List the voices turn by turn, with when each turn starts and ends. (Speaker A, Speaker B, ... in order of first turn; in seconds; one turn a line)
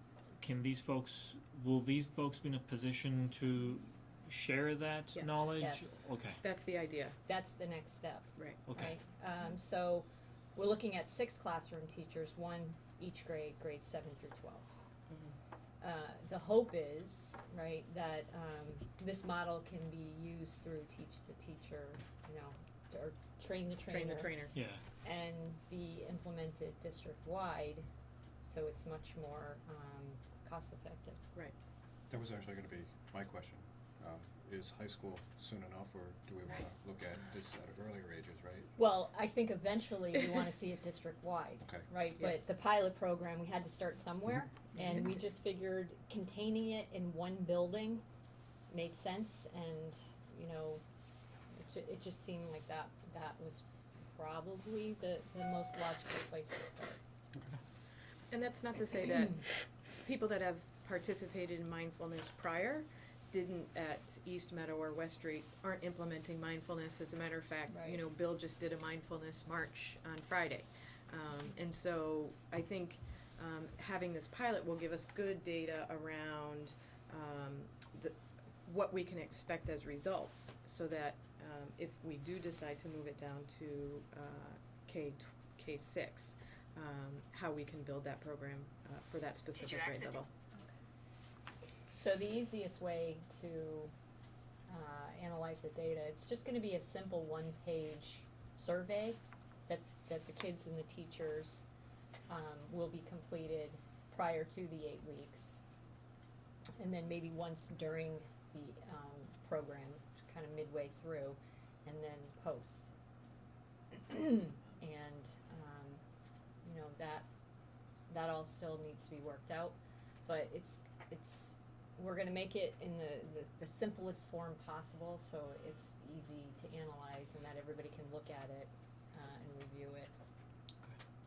Speaker A: 0.4-6.4
Speaker B: 5.1-5.5
Speaker C: 5.5-6.1
Speaker B: 6.4-7.2
Speaker C: 7.2-14.7
Speaker A: 8.7-9.0
Speaker B: 15.1-15.3
Speaker C: 15.8-24.5
Speaker B: 23.9-24.6
Speaker A: 24.5-24.8
Speaker C: 25.0-27.9
Speaker C: 28.4-31.2
Speaker D: 32.1-38.7
Speaker C: 38.8-48.0
Speaker B: 42.2-42.4
Speaker C: 48.7-50.8
Speaker C: 51.5-57.0
Speaker B: 58.3-90.3
Speaker C: 67.7-68.0
Speaker C: 91.9-93.9
Speaker C: 94.7-101.6
Speaker C: 102.3-105.6
Speaker C: 106.8-112.9
Speaker C: 113.9-116.0
Speaker C: 116.6-117.3
Speaker C: 118.1-130.1